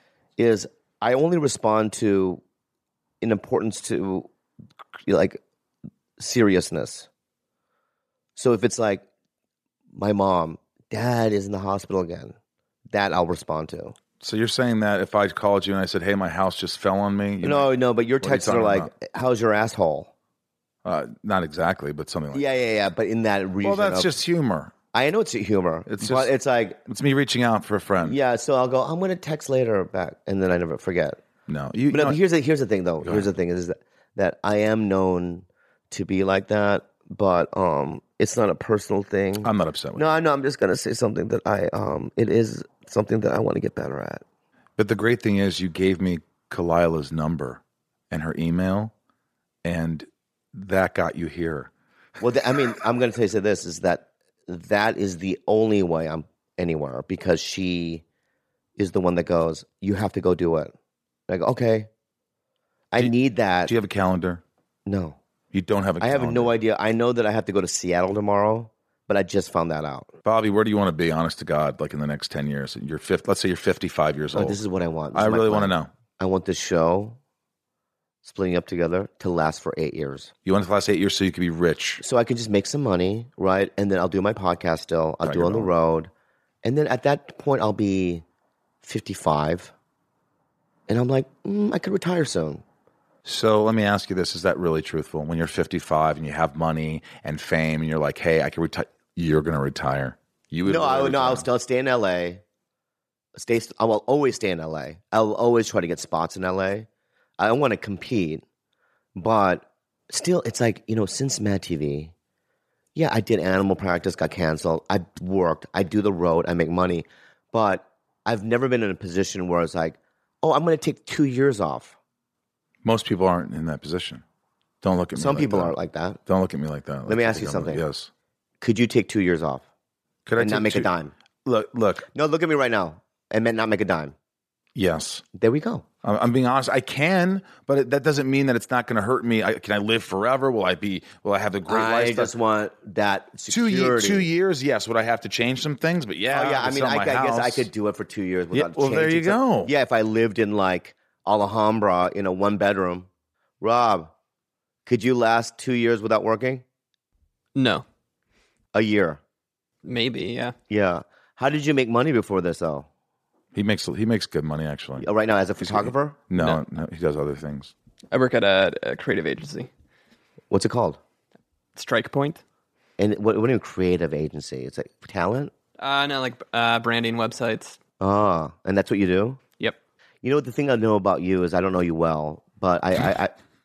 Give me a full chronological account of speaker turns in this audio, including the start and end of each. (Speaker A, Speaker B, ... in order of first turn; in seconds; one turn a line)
Speaker A: 0.4-2.4
Speaker A: 3.2-4.3
Speaker A: 5.1-5.4
Speaker A: 6.2-7.1
Speaker A: 8.4-9.1
Speaker A: 9.9-12.3
Speaker A: 12.9-13.9
Speaker B: 14.2-18.9
Speaker A: 17.4-20.1
Speaker B: 20.8-22.4
Speaker A: 22.3-24.1
Speaker B: 23.6-24.7
Speaker A: 24.9-26.8
Speaker B: 25.9-26.3
Speaker B: 26.9-28.2
Speaker A: 28.0-31.2
Speaker B: 31.5-32.2
Speaker A: 31.9-44.2
Speaker B: 33.0-33.3
Speaker B: 39.4-40.0
Speaker B: 44.8-48.9
Speaker B: 49.6-51.7
Speaker A: 52.2-58.0
Speaker A: 58.8-60.7
Speaker A: 61.3-61.9
Speaker A: 62.9-63.7
Speaker B: 63.6-64.4
Speaker A: 64.9-65.2
Speaker B: 65.5-66.5
Speaker A: 66.0-70.1
Speaker B: 70.2-74.6
Speaker A: 74.3-77.2
Speaker B: 75.1-75.9
Speaker A: 78.2-80.3
Speaker B: 80.5-82.0
Speaker A: 82.0-86.1
Speaker B: 85.2-85.7
Speaker A: 86.6-88.2
Speaker A: 88.8-89.7
Speaker A: 90.9-92.6
Speaker B: 93.2-101.5
Speaker A: 100.6-102.4
Speaker A: 103.4-106.9
Speaker A: 107.4-108.4
Speaker A: 109.2-112.1
Speaker A: 113.0-122.0
Speaker B: 122.8-124.2
Speaker B: 124.8-125.8
Speaker A: 125.2-126.2
Speaker B: 126.3-128.1
Speaker A: 127.1-127.8
Speaker A: 128.6-129.6
Speaker B: 130.3-130.9
Speaker A: 130.4-131.1
Speaker B: 131.4-132.1
Speaker A: 132.1-134.1
Speaker B: 134.8-135.2
Speaker A: 135.3-135.8
Speaker B: 136.0-142.3
Speaker A: 141.7-144.3
Speaker B: 143.5-147.7
Speaker A: 146.3-153.1
Speaker B: 148.5-149.7
Speaker A: 153.6-154.1
Speaker A: 154.9-156.6
Speaker C: 157.6-157.8
Speaker A: 158.7-159.2
Speaker C: 159.8-160.5
Speaker A: 160.7-162.9
Speaker B: 163.5-165.1
Speaker A: 165.0-166.2
Speaker B: 165.6-167.7
Speaker C: 168.1-169.7
Speaker A: 170.5-171.0
Speaker C: 171.8-172.4
Speaker A: 173.0-175.5
Speaker C: 175.8-177.8
Speaker A: 178.0-179.4
Speaker A: 180.2-183.3